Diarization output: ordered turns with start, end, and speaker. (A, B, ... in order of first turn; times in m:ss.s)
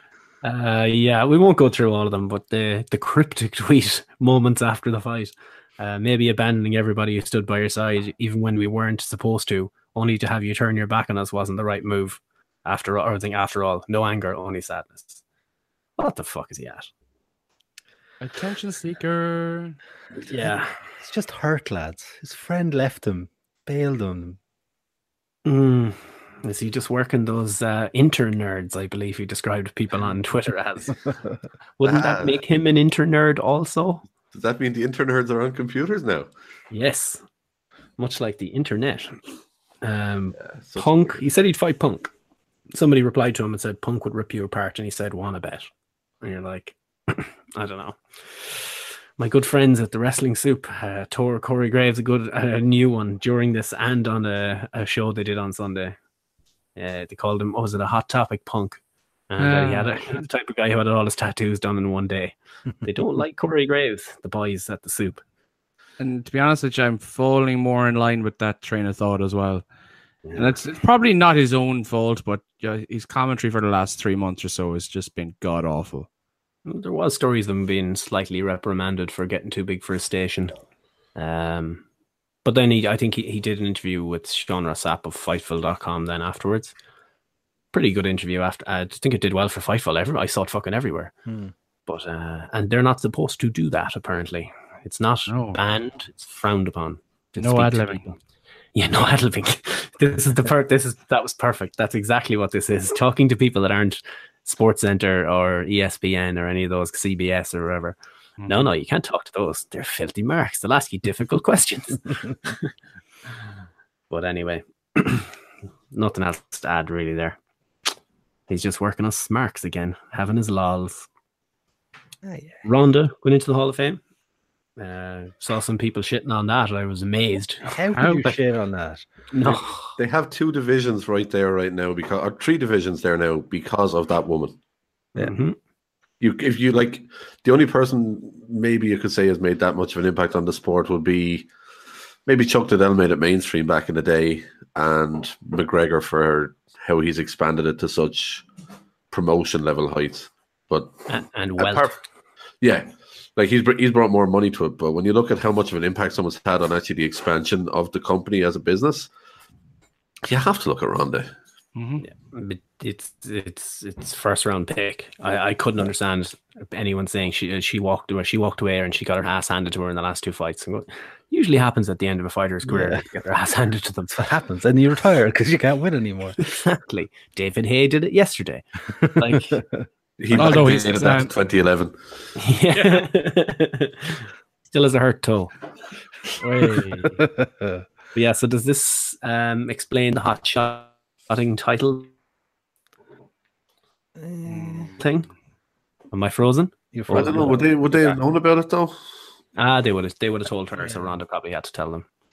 0:00.4-0:15.2 A
0:16.0-0:16.9 A
0:18.2-0:19.8 B
0:20.3-0:20.7 A
0:20.3-0:24.4 C
0:25.4-0:31.0 A
0:31.8-0:34.0 A
0:31.8-0:32.4 D
0:34.3-0:36.3 D
0:36.7-0:37.2 A
0:38.0-0:39.2 A
0:39.8-0:42.1 A
0:40.6-0:41.2 D
0:42.7-0:45.7 A
0:46.2-0:48.6 A
0:49.2-0:56.0 A
0:56.8-1:05.2 A
0:59.4-0:59.9 B
1:06.0-1:09.6 B
1:10.2-1:10.5 A
1:10.3-1:16.1 B
1:16.6-1:20.5 A
1:21.2-1:21.8 A
1:22.4-1:26.7 A
1:27.7-1:31.1 A
1:31.2-1:31.5 C
1:31.9-1:38.2 A
1:35.3-1:35.6 B
1:37.4-1:38.0 B
1:38.7-1:48.0 A
1:48.4-1:48.7 B
1:48.5-1:52.5 A
1:54.1-1:55.3 A
1:55.9-1:57.4 A
1:58.5-2:01.1 A
2:02.2-2:02.6 C
2:02.6-2:04.0 A
2:04.8-2:08.3 A
2:07.7-2:09.0 C
2:09.3-2:10.0 A
2:10.0-2:14.6 D
2:15.2-2:15.6 A
2:16.2-2:21.5 D
2:22.2-2:28.4 D
2:29.1-2:31.0 D
2:31.1-2:32.0 A
2:31.6-2:31.9 D
2:32.6-2:39.1 D
2:40.2-2:41.3 D
2:41.8-2:42.0 B
2:42.0-2:54.2 A
2:52.6-2:53.0 C
2:54.1-2:56.4 C
2:56.4-2:59.6 A
2:59.2-2:59.8 C
3:00.2-3:01.9 D
3:00.3-3:01.3 B
3:02.4-3:05.5 A
3:02.8-3:03.0 B
3:06.4-3:07.2 B
3:07.0-3:07.8 C
3:08.1-3:12.1 A
3:14.2-3:15.0 C
3:14.4-3:14.9 B
3:15.0-3:15.3 A
3:16.1-3:18.1 A
3:16.9-3:17.7 C
3:17.1-3:19.0 D
3:19.6-3:22.0 A